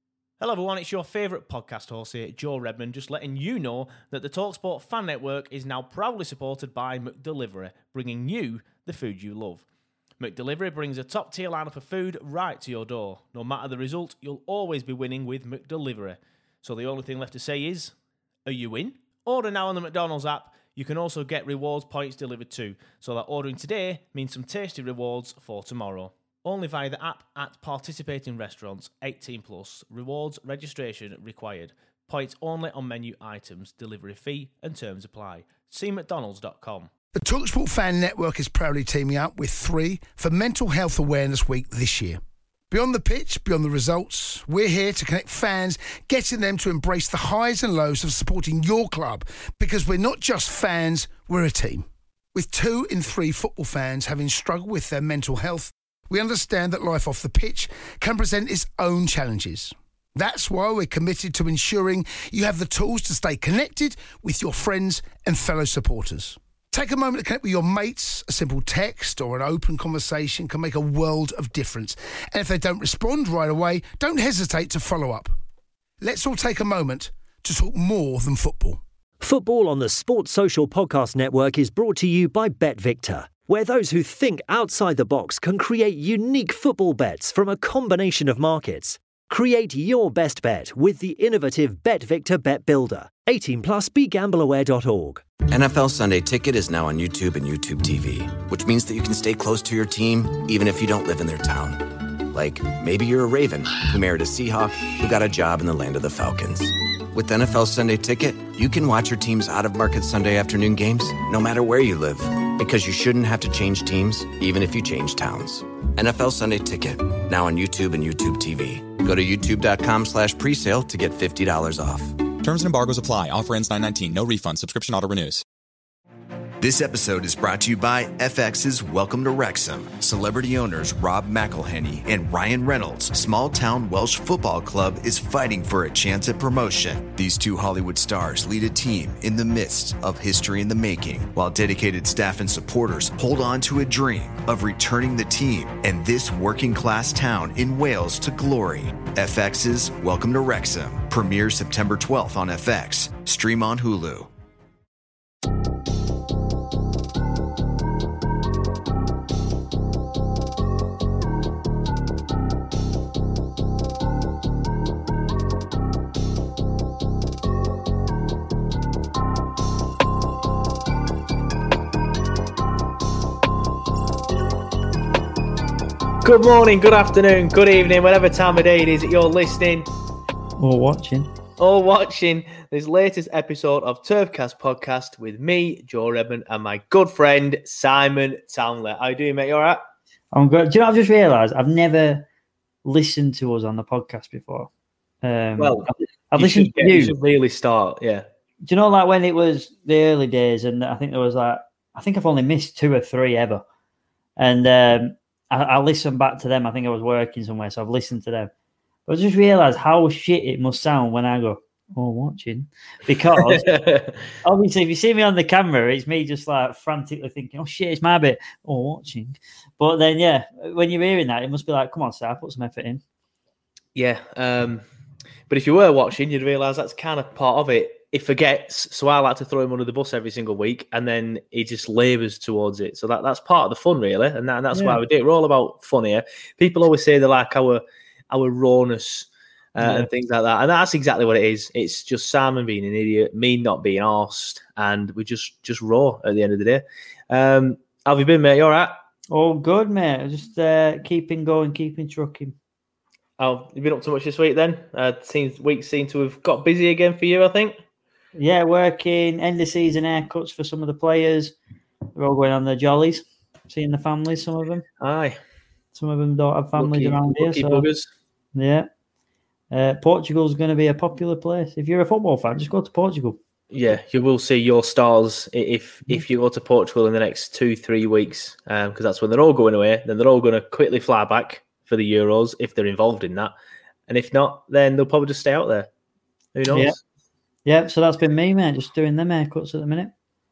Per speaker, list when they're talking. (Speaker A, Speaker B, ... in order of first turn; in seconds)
Speaker A: 0.4-9.6, 10.2-17.9, 18.4-36.9, 176.2-179.9, 181.6-189.8, 195.6-198.2, 213.5-214.2, 223.9-224.8, 225.5-248.9, 253.4-257.8, 265.0-265.4, 266.8-268.1, 273.7-283.5, 284.1-285.9, 286.5-286.9
Speaker B: 37.1-75.3, 76.0-78.8
Speaker C: 79.2-95.2
Speaker D: 95.5-122.2
Speaker E: 122.4-125.4
Speaker F: 126.6-154.3
Speaker G: 180.6-181.3, 190.3-192.2, 192.8-194.7, 195.2-197.1, 198.6-203.6, 204.4-208.5, 209.1-213.8, 214.4-223.0, 234.7-235.0, 239.8-240.1, 249.3-252.5, 258.4-261.5, 262.1-264.8, 265.9-267.9, 268.5-268.9, 269.7-273.4, 286.7-286.9, 287.6-290.1